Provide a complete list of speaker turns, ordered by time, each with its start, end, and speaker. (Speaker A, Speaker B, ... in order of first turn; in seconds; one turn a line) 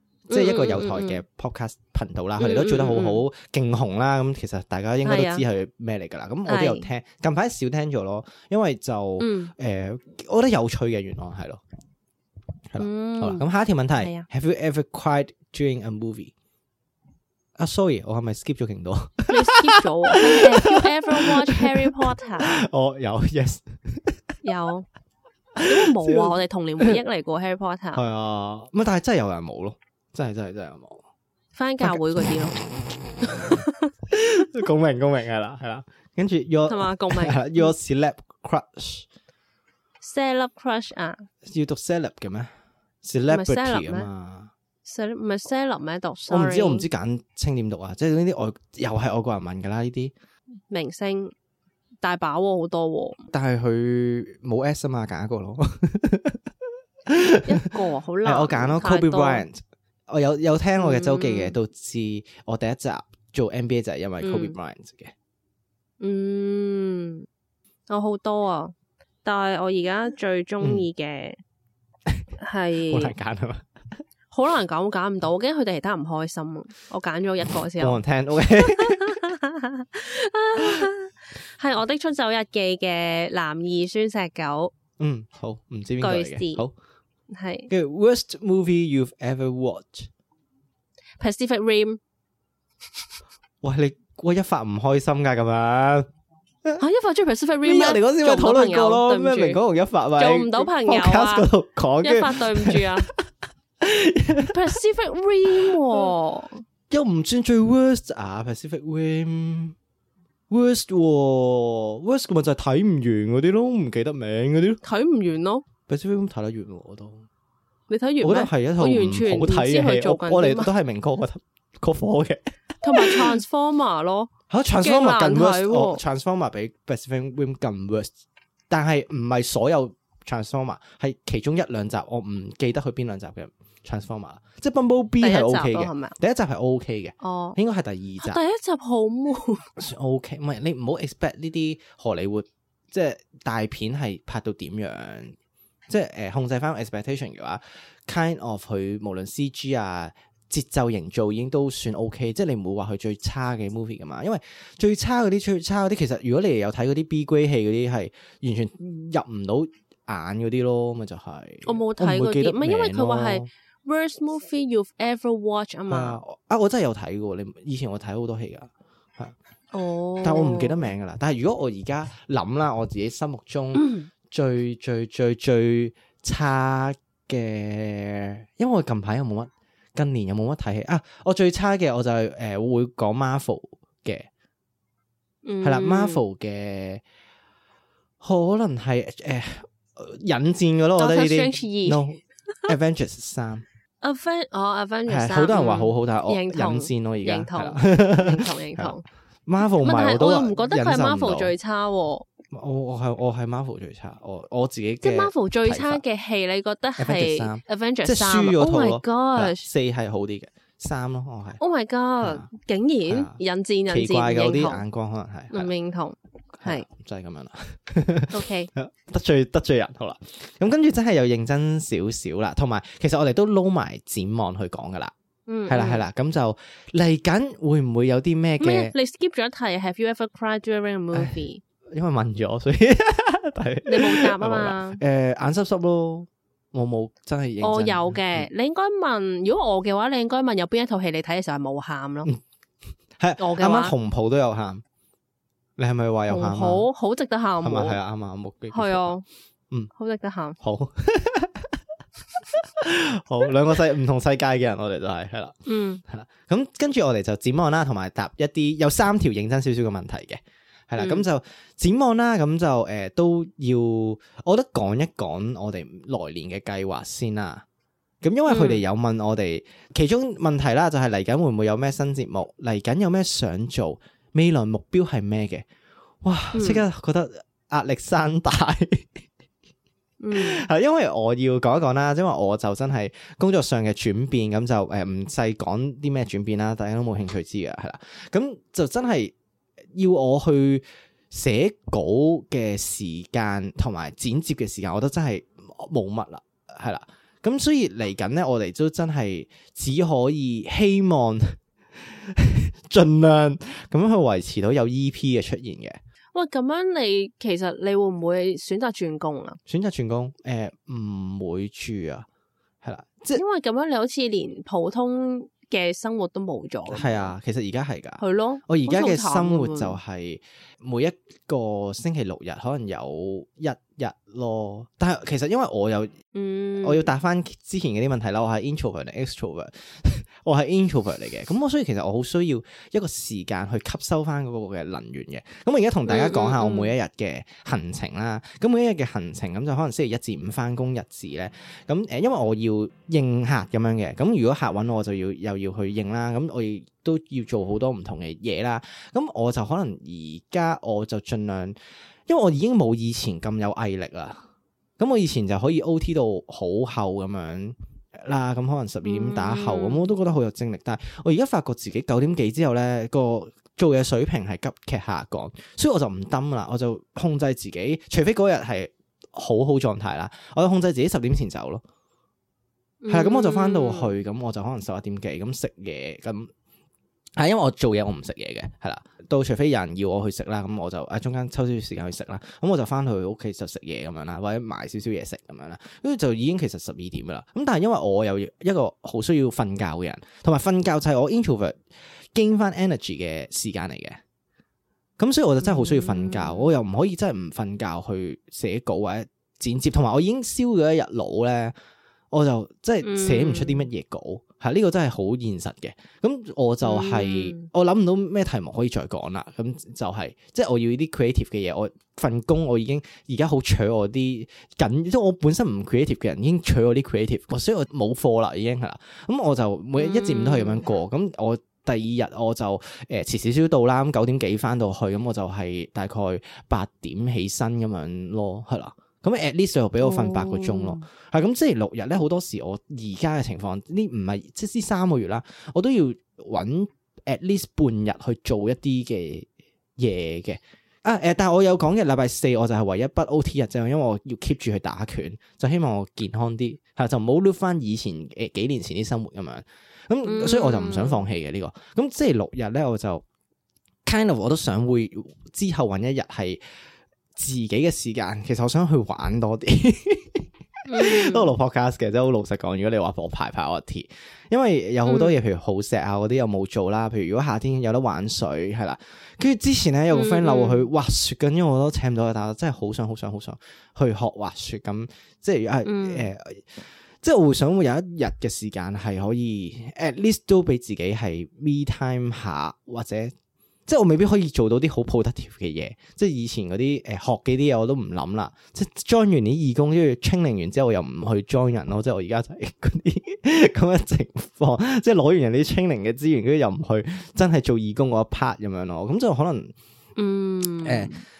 Speaker A: 0.3-11.6
Speaker B: 0.3-1.2
Speaker B: 2.4-3.2
Speaker B: 5.0-5.4
Speaker B: 6.5-6.9
Speaker B: 9.2-9.5
Speaker A: 12.7-16.3
Speaker B: 12.8-13.4
Speaker B: 14.0-14.3
Speaker A: 17.6-24.4
Speaker B: 19.3-22.6
Speaker B: 24.4-24.9
Speaker A: 25.6-27.0
Speaker B: 25.7-28.0
Speaker A: 27.9-31.0
Speaker B: 31.5-32.6
Speaker A: 31.8-39.1
Speaker B: 33.2-33.9
Speaker B: 36.7-37.7
Speaker B: 40.0-41.3
Speaker A: 41.5-42.5
Speaker A: 43.0-44.5
Speaker B: 43.3-44.1
Speaker B: 44.9-46.9
Speaker A: 46.3-50.1
Speaker B: 50.7-51.3
Speaker B: 52.0-53.2
Speaker A: 53.3-56.4
Speaker A: 57.1-65.1
Speaker B: 57.5-59.5
Speaker B: 60.8-61.6
Speaker B: 64.2-64.6
Speaker B: 66.0-67.3
Speaker B: 67.9-71.4
Speaker A: 70.6-70.9
Speaker B: 72.4-73.1
Speaker A: 72.9-73.7
Speaker B: 74.3-78.0
Speaker A: 77.8-79.3
Speaker B: 78.6-84.7
Speaker A: 85.0-86.7
Speaker B: 86.0-86.6
Speaker B: 87.3-87.7
Speaker A: 87.7-90.1
Speaker B: 91.2-92.0
Speaker A: 93.6-96.1
Speaker B: 96.8-99.6
Speaker A: 97.6-103.3
Speaker B: 100.2-101.5
Speaker B: 102.0-103.1
Speaker A: 103.8-104.8
Speaker B: 104.5-106.6
Speaker A: 105.5-106.0
Speaker A: 106.9-109.8
Speaker A: 110.5-114.8
Speaker B: 114.8-115.7
Speaker A: 115.9-117.3
Speaker B: 117.9-120.7
Speaker A: 118.2-123.4
Speaker B: 122.8-124.3
Speaker A: 124.5-128.1
Speaker B: 124.8-126.0
Speaker A: 128.7-138.4
Speaker B: 135.2-136.2
Speaker B: 137.2-137.6
Speaker B: 138.2-139.7
Speaker A: 139.8-145.3
Speaker A: 145.9-163.5
Speaker B: 161.7-166.2
Speaker A: 165.9-169.3
Speaker B: 169.7-170.9
Speaker A: 170.2-184.3
Speaker B: 173.8-174.1
Speaker B: 185.4-186.2
Speaker A: 185.6-187.0
Speaker A: 188.2-193.7
Speaker B: 191.0-192.0
Speaker B: 194.0-199.1
Speaker A: 195.1-201.5
Speaker B: 199.8-202.3
Speaker A: 202.5-206.0
Speaker B: 205.0-209.7
Speaker A: 207.0-211.6
Speaker B: 211.6-214.8
Speaker A: 212.2-212.5
Speaker A: 213.1-215.7
Speaker B: 215.5-216.9
Speaker A: 216.6-225.1
Speaker B: 218.3-218.7
Speaker B: 225.5-226.0
Speaker A: 225.7-228.9
Speaker B: 228.6-231.6
Speaker A: 231.9-238.5
Speaker B: 233.9-235.0
Speaker B: 237.6-242.3
Speaker A: 243.2-244.8
Speaker B: 243.4-243.9
Speaker A: 245.8-246.9
Speaker B: 246.3-248.0
Speaker A: 247.6-249.1
Speaker B: 248.7-249.2
Speaker B: 249.9-250.6
Speaker A: 250.6-251.8
Speaker A: 252.5-267.6
Speaker B: 255.7-256.0
Speaker B: 261.0-261.2
Speaker A: 268.2-275.7
Speaker B: 268.5-268.8
Speaker A: 276.2-279.2
Speaker B: 276.6-276.9
Speaker B: 280.2-280.7
Speaker A: 280.3-289.3
Speaker A: 289.9-306.0
Speaker B: 306.3-309.6
Speaker A: 309.7-312.3
Speaker A: 312.8-313.4
Speaker B: 313.4-317.3
Speaker A: 316.9-326.2
Speaker B: 318.2-320.0
Speaker B: 326.3-327.1
Speaker A: 326.8-354.4
Speaker B: 336.1-336.9
Speaker A: 355.0-371.8
Speaker B: 359.0-360.1
Speaker B: 373.0-374.1
Speaker A: 373.1-376.5
Speaker A: 377.4-391.8
Speaker A: 392.3-394.2
Speaker A: 395.2-401.8
Speaker B: 395.6-396.7
Speaker A: 402.3-453.2
Speaker B: 403.0-403.9
Speaker B: 406.8-407.7
Speaker B: 420.0-420.9
Speaker B: 430.0-431.1
Speaker B: 450.3-451.2
Speaker A: 454.1-456.6
Speaker A: 457.4-483.3
Speaker B: 460.9-461.5
Speaker B: 465.1-465.4
Speaker B: 470.1-470.9
Speaker B: 475.9-476.3
Speaker A: 483.9-499.7
Speaker B: 500.2-501.2
Speaker A: 500.8-501.1